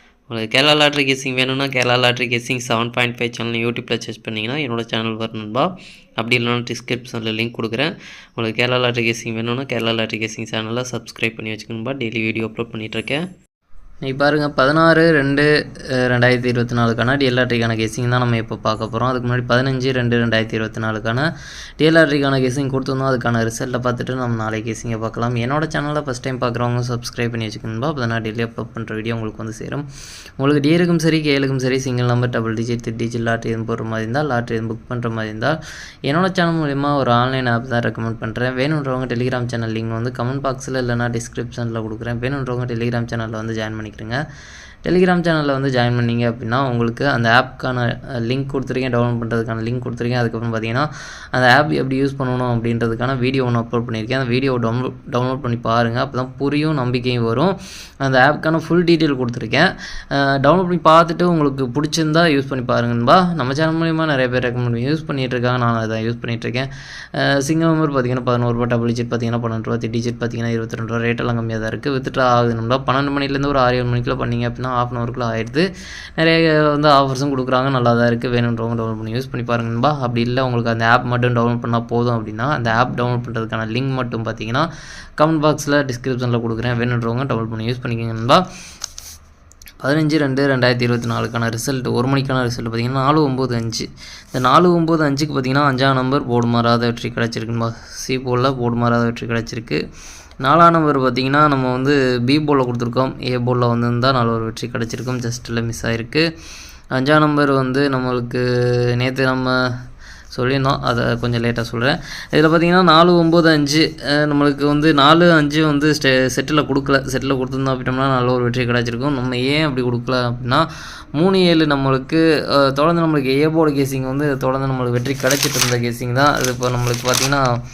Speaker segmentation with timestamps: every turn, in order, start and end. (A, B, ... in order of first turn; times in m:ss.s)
0:00.3-0:01.3 A
0:00.6-0:05.7 B
0:01.9-0:05.6 A
0:06.3-0:06.9 A
0:06.3-0:07.9 B
0:08.4-0:10.9 A
0:08.5-0:13.2 B
0:11.5-0:13.2 A
0:14.0-0:21.3 B
0:21.8-0:29.9 B
0:30.4-0:44.2 B
0:44.8-1:24.7 B
1:25.2-1:28.4 B
1:29.8-1:39.8 B
1:40.4-1:46.2 B
1:47.0-1:49.6 B
1:50.3-2:07.4 B